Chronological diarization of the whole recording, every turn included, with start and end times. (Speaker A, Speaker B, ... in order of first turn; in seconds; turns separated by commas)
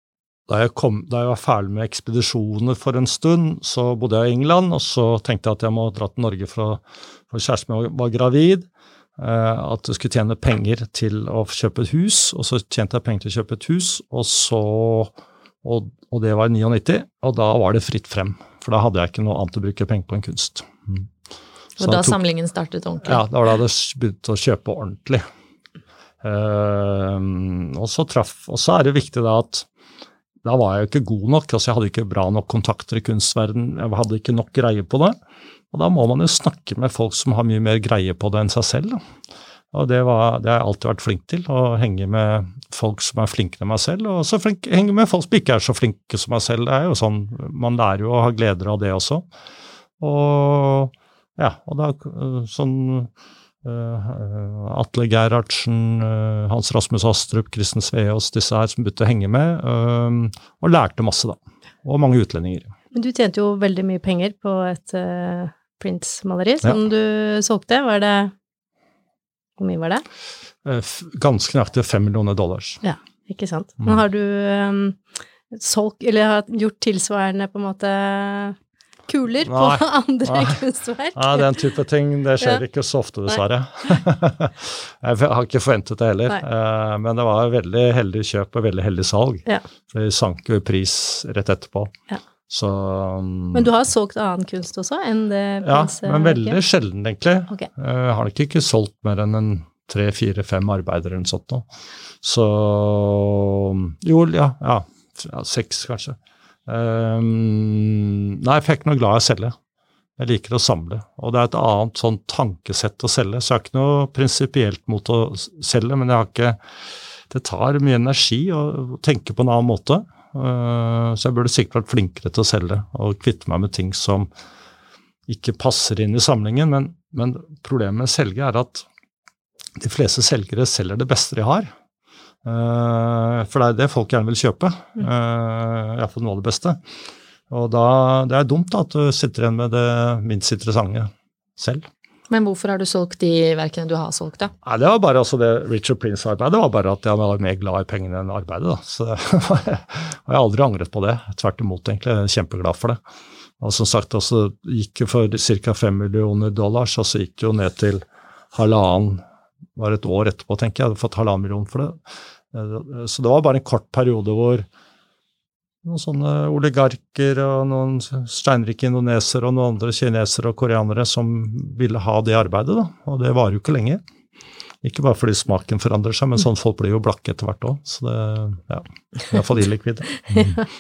Speaker A: 0.5-21.1, Speaker A: 21.8-22.2, Speaker B: 21.8-23.2, Speaker A: 23.0-25.2, Speaker A: 26.2-29.7, Speaker A: 30.4-35.2, Speaker A: 35.7-39.0, Speaker A: 39.7-49.3, Speaker A: 50.0-53.1, Speaker A: 53.6-62.7, Speaker C: 62.9-68.3, Speaker C: 69.6-70.0, Speaker A: 70.7-72.8, Speaker C: 72.8-75.0, Speaker C: 75.5-78.6, Speaker C: 79.1-81.6, Speaker A: 79.5-80.6, Speaker A: 81.2-91.9, Speaker A: 92.5-93.7, Speaker C: 93.5-96.6, Speaker A: 95.6-101.7, Speaker A: 102.2-109.6, Speaker A: 110.2-116.6, Speaker A: 117.3-124.3, Speaker A: 125.3-128.9, Speaker A: 129.8-131.7, Speaker A: 132.4-136.8, Speaker A: 137.5-141.9, Speaker B: 142.3-144.5, Speaker A: 144.6-153.0, Speaker A: 153.6-159.2, Speaker A: 159.8-162.0, Speaker A: 162.5-164.7, Speaker A: 165.8-174.0, Speaker A: 174.8-180.6, Speaker C: 180.3-180.6